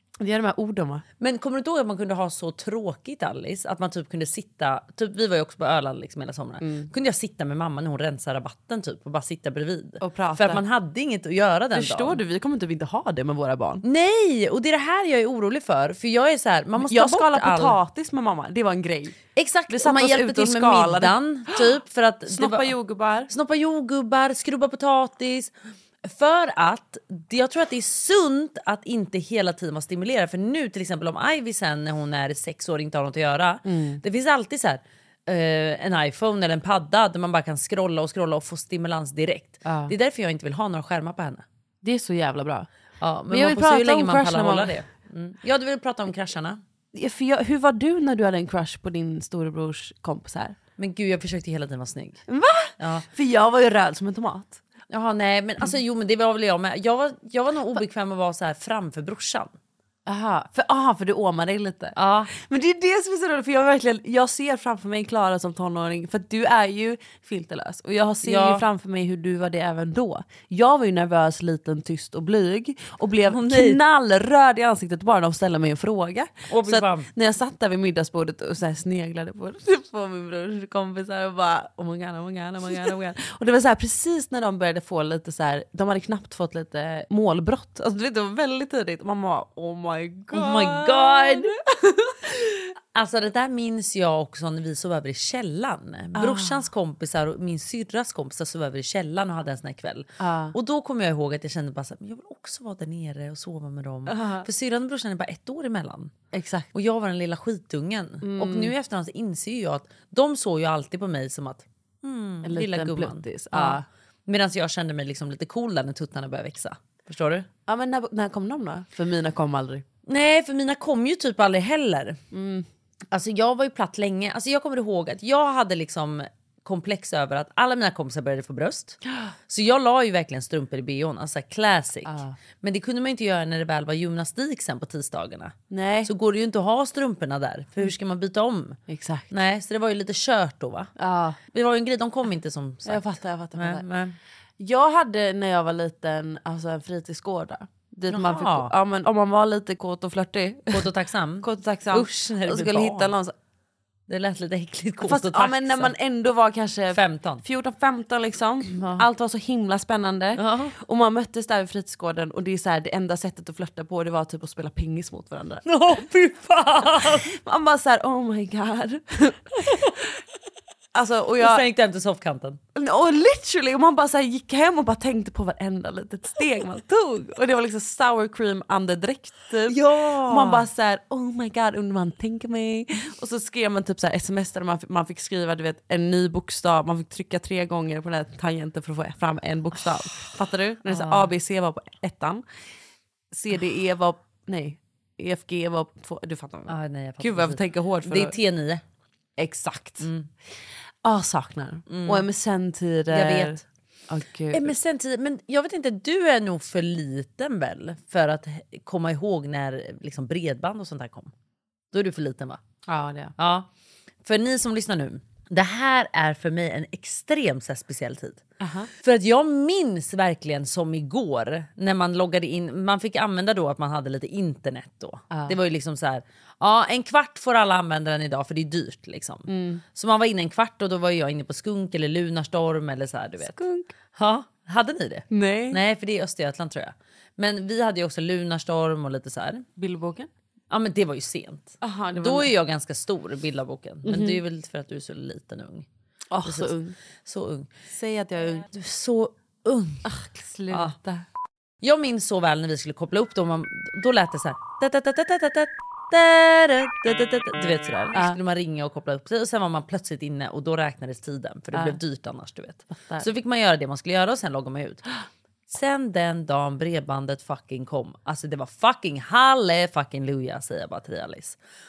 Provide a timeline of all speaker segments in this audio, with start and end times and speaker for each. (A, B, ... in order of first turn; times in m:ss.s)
0:00.2-0:01.0 A
0:01.2-0:12.2 B
0:06.6-0:06.9 A
0:10.0-0:10.6 A
0:11.7-0:13.8 A
0:13.8-0:17.8 B
0:16.8-0:19.2 A
0:19.4-0:22.8 B
0:19.7-0:21.1 A
0:22.3-0:23.3 A
0:23.3-0:25.5 B
0:26.0-0:41.4 B
0:33.6-0:34.0 A
0:39.6-0:39.9 A
0:41.8-0:42.7 A
0:43.0-0:46.6 B
0:43.3-0:44.8 A
0:46.9-0:50.6 A
0:50.8-0:52.2 B
0:52.3-0:54.6 A
0:52.8-0:53.1 B
0:54.9-0:59.5 B
1:00.1-1:32.5 A
1:02.0-1:02.3 B
1:08.2-1:08.6 B
1:13.3-1:13.8 B
1:16.5-1:17.1 B
1:30.3-1:31.5 B
1:32.9-1:46.1 B
1:36.2-1:36.7 A
1:40.2-1:40.6 A
1:44.1-1:44.5 A
1:46.3-1:46.7 A
1:46.7-1:57.5 B
1:48.2-1:48.7 A
1:52.4-1:53.8 A
1:57.7-1:59.8 A
2:00.1-2:02.2 B
2:02.3-2:02.7 A
2:03.1-2:20.9 B
2:12.1-2:12.4 A
2:15.7-2:16.1 A
2:18.9-2:19.3 A
2:21.0-2:21.4 A
2:21.5-2:23.0 B
2:22.9-2:23.8 A
2:23.6-2:24.2 B
2:24.6-2:30.8 A
2:28.1-2:28.7 B
2:30.7-2:33.1 B
2:31.4-2:33.3 A
2:34.1-2:35.9 B
2:35.0-2:45.6 A
2:36.9-2:37.4 B
2:38.7-2:39.1 B
2:40.4-2:40.8 B
2:45.6-2:47.3 B
2:47.3-2:49.6 A
2:50.9-2:51.6 A
2:51.4-2:52.6 B
2:52.8-3:12.4 A
2:59.7-3:00.7 B
3:10.9-3:11.3 B
3:13.3-3:18.4 A
3:16.7-3:18.8 B
3:19.4-3:20.1 A
3:20.0-3:20.3 B
3:21.0-3:24.8 A
3:21.9-3:22.3 B
3:23.1-3:23.6 B
3:24.5-3:31.3 B
3:31.9-3:32.6 B
3:32.9-3:33.3 A
3:33.4-3:33.7 B
3:34.2-3:38.4 B
3:38.6-3:38.9 A
3:39.0-3:53.6 B
3:45.3-3:45.6 A
3:49.5-3:49.8 A
3:53.4-3:53.9 A
3:54.1-3:59.7 B
3:55.3-3:55.8 A
3:59.8-4:00.3 A
4:00.7-4:05.9 B
4:01.8-4:02.5 A
4:04.1-4:04.4 A
4:06.3-4:07.0 A
4:06.4-4:06.7 B
4:07.2-4:07.7 B
4:07.9-4:08.6 A
4:08.7-4:10.0 B
4:10.0-4:11.2 A
4:10.7-4:11.0 B
4:11.8-4:25.0 B
4:18.1-4:18.4 A
4:21.7-4:22.0 A
4:22.9-4:23.3 A
4:25.7-4:31.6 B